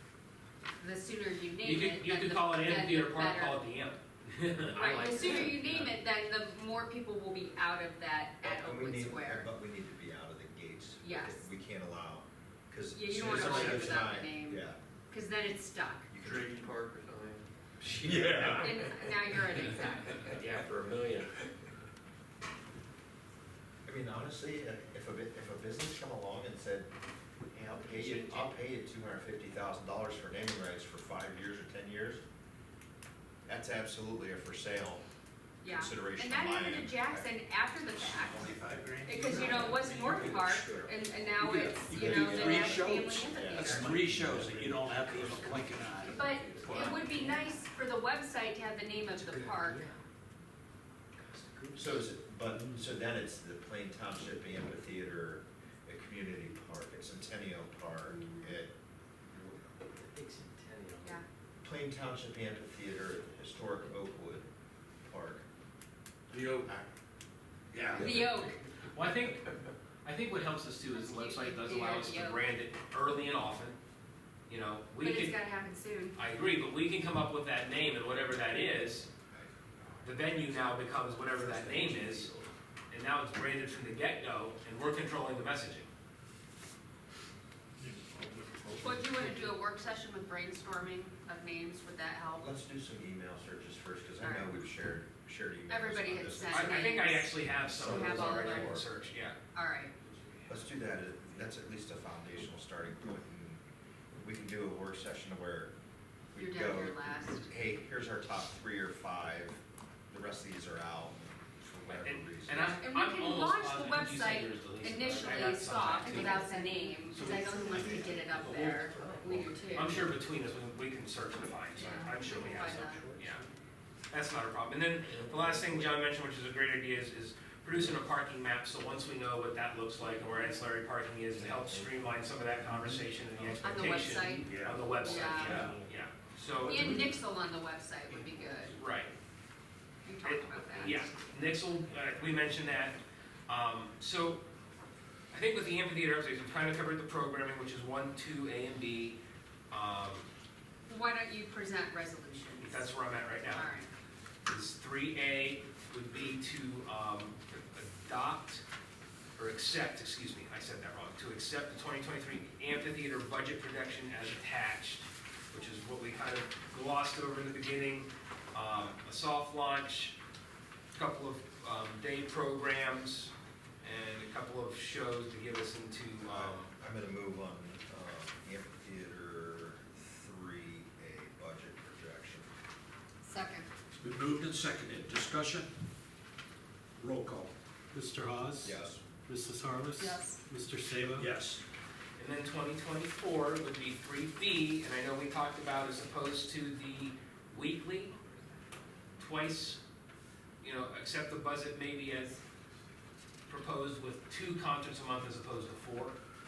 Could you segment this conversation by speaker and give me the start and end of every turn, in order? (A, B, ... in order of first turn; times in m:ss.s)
0:00.8-0:03.6 A
0:01.6-0:04.8 B
0:04.6-0:06.0 C
0:04.8-0:09.5 A
0:08.4-0:14.8 D
0:11.0-0:11.5 A
0:12.9-0:16.1 A
0:13.2-0:13.9 E
0:16.1-0:16.6 D
0:16.2-0:18.7 C
0:17.9-0:18.9 D
0:18.0-0:18.8 E
0:18.5-0:20.3 A
0:19.6-0:21.3 C
0:23.8-0:26.9 D
0:27.5-0:32.2 D
0:28.0-0:28.4 A
0:33.5-0:35.0 D
0:35.6-0:44.0 A
0:35.7-0:37.3 D
0:38.9-0:40.3 C
0:41.4-0:47.3 E
0:41.9-0:45.5 D
0:45.2-0:47.3 C
0:46.1-0:49.9 A
0:49.4-0:49.9 C
0:51.2-0:51.9 C
0:51.7-0:58.8 D
0:58.1-0:58.6 A
0:59.3-0:59.8 D
1:00.0-1:01.2 C
1:01.6-1:04.5 D
1:05.0-1:05.4 D
1:06.3-1:06.7 C
1:06.3-1:06.9 D
1:07.7-1:08.1 E
1:07.8-1:08.4 C
1:08.0-1:08.6 A
1:08.0-1:08.3 D
1:08.9-1:09.5 B
1:10.0-1:13.8 B
1:10.9-1:12.5 A
1:14.5-1:15.4 B
1:15.0-1:16.2 A
1:16.2-1:19.1 B
1:19.3-1:20.1 D
1:20.0-1:22.3 B
1:21.2-1:22.5 C
1:22.9-1:25.9 B
1:28.8-1:32.5 A
1:32.4-1:38.9 D
1:34.2-1:34.5 A
1:35.7-1:38.8 A
1:36.5-1:39.4 B
1:39.5-1:39.9 A
1:40.5-1:45.7 D
1:46.3-1:52.8 D
1:46.4-1:47.5 A
1:51.9-1:56.6 B
1:52.6-2:00.0 A
1:57.2-1:58.0 B
1:57.2-2:00.1 C
1:59.7-2:03.4 B
2:01.8-2:03.0 A
2:04.1-2:17.0 B
2:11.4-2:11.9 C
2:13.6-2:14.5 A
2:14.4-2:15.8 E
2:15.0-2:15.9 C
2:15.0-2:15.6 A
2:16.6-2:18.8 A
2:18.7-2:19.1 B
2:20.0-2:21.1 A
2:20.2-2:24.4 B
2:25.3-2:29.2 B
2:29.7-2:30.3 B
2:30.9-2:32.9 A
2:32.6-2:33.7 B
2:33.5-2:33.9 A
2:34.5-2:38.6 B
2:39.4-2:50.2 B
2:50.9-2:56.7 B
2:56.2-3:02.5 D
3:03.2-3:03.7 A
3:03.9-3:05.7 E
3:07.0-3:07.5 E
3:07.9-3:11.3 F
3:08.6-3:09.0 D
3:10.0-3:10.4 A
3:11.2-3:11.6 E
3:12.2-3:18.2 B
3:19.2-3:19.8 B
3:20.6-3:22.4 B
3:23.5-3:26.2 B